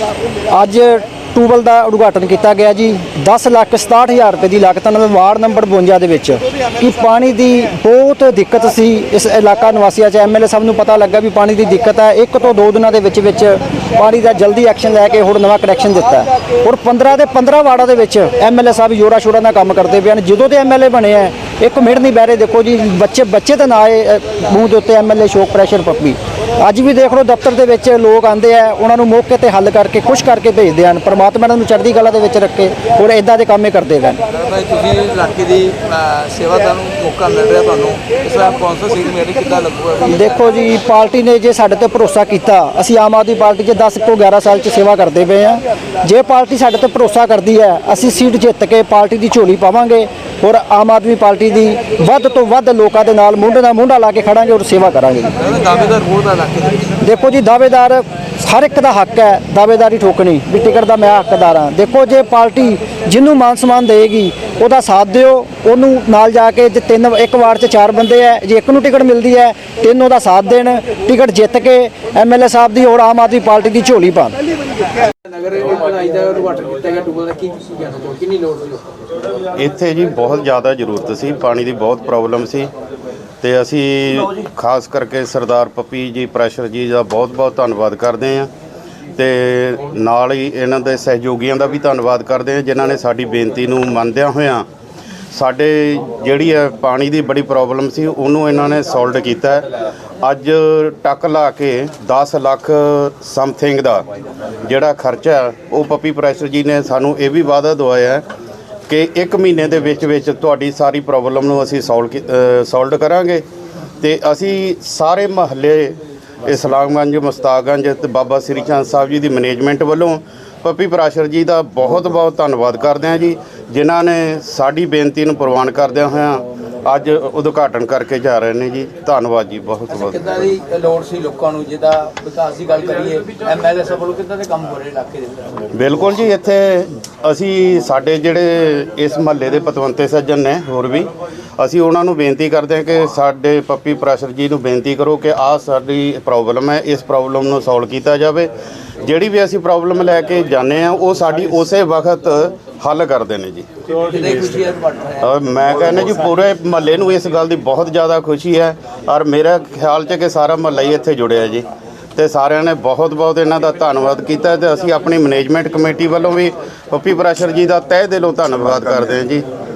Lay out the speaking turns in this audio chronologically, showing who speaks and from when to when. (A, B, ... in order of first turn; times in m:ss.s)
0:00.5-0:34.2 A
0:34.3-0:40.4 B
0:40.0-0:55.3 A
0:55.4-0:56.9 B
0:57.0-1:14.4 A
1:15.2-1:18.8 B
1:19.6-1:22.7 C
1:23.4-1:28.5 C
1:29.2-1:34.6 C
1:35.3-1:39.7 C
1:40.2-1:44.0 C
1:44.6-1:48.2 C
1:48.9-1:53.4 C
1:54.0-2:10.5 C
2:09.9-2:15.6 B
2:15.7-2:28.5 C
2:29.0-2:34.5 C
2:34.0-2:35.2 B
2:35.2-2:49.4 C